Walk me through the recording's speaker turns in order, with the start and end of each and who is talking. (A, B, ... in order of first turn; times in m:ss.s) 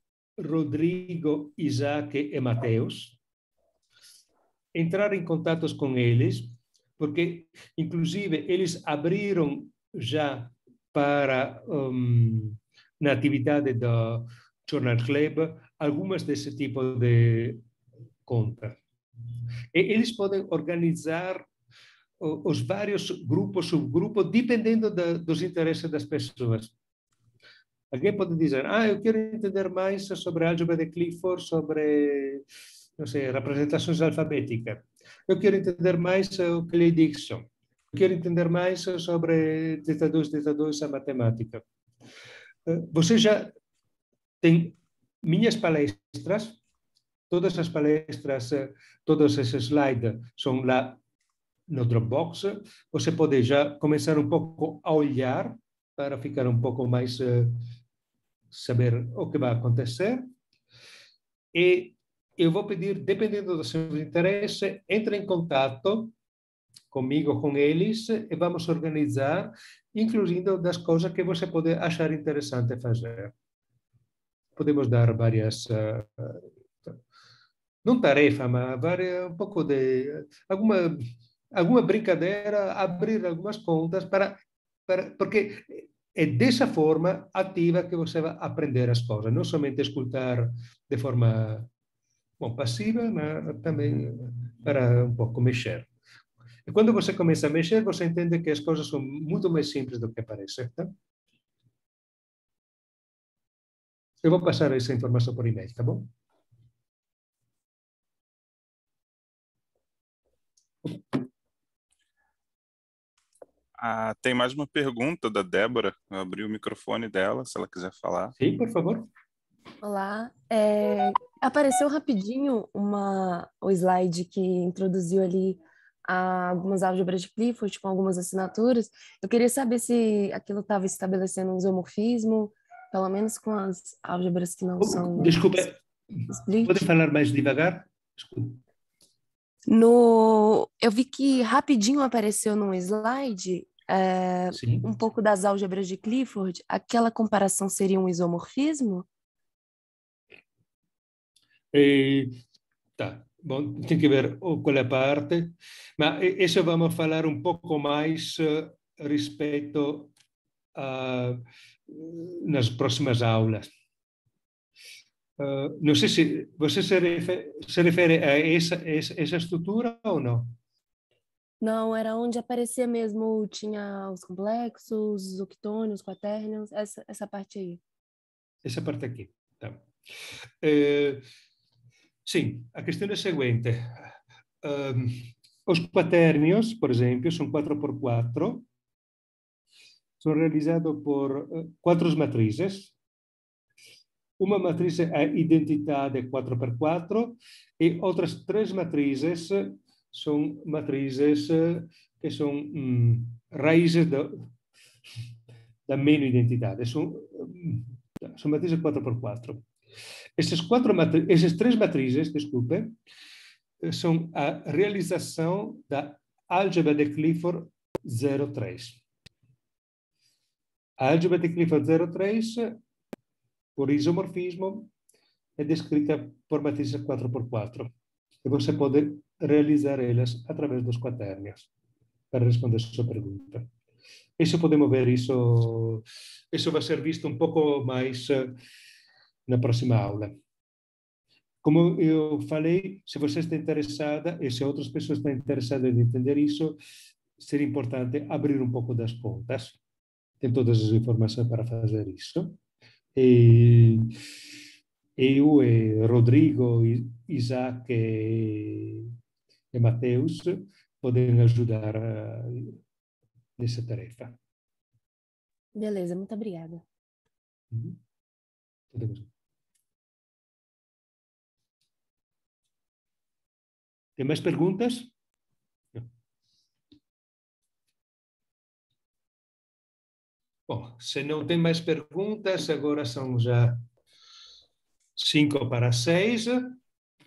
0:00.4-0:03.2 A
0:04.8-0:17.6 A
0:18.3-0:18.8 A
0:19.7-0:21.5 A
0:22.2-0:26.7 A
0:27.9-0:32.4 A
0:33.0-0:41.6 A
0:42.7-0:43.5 A
0:44.4-0:46.6 A
0:47.3-0:51.0 A
0:51.7-0:57.6 A
0:58.5-1:00.3 A
1:01.5-1:06.1 A
1:06.9-1:13.3 A
1:14.6-1:17.0 A
1:17.8-1:31.7 A
1:32.4-1:35.9 A
1:36.7-1:40.9 A
1:44.2-1:46.1 A
1:53.8-1:58.3 B
1:58.4-1:59.1 A
1:59.8-2:15.6 C
2:14.8-2:18.6 A
2:16.3-2:16.8 C
2:19.7-2:29.1 C
2:24.5-2:24.9 A
2:31.7-2:32.4 A
2:33.0-2:40.1 A
2:40.8-2:43.7 A
2:45.4-2:50.6 A
2:51.6-2:57.8 C
2:58.6-2:59.8 A
3:00.6-3:01.2 A
3:02.3-3:04.0 A
3:04.6-3:08.7 A
3:10.2-3:12.9 A
3:14.4-3:24.4 A
3:25.9-3:29.6 A
3:30.4-3:33.0 A
3:33.8-3:39.0 A
3:41.0-3:42.8 A
3:43.8-3:44.9 A
3:45.6-3:47.9 A
3:48.4-3:51.7 A
3:52.3-3:53.7 A
3:54.4-3:58.5 A
3:59.5-4:00.3 A
4:01.6-4:06.8 A
4:07.4-4:09.8 A
4:10.4-4:12.6 A
4:13.2-4:14.1 A
4:15.2-4:19.1 A
4:19.7-4:22.8 A
4:23.6-4:24.4 A
4:25.8-4:26.8 C
4:27.7-4:28.0 A
4:28.9-4:29.3 A
4:34.2-4:35.1 A
4:40.7-4:43.8 A
4:45.2-4:46.8 A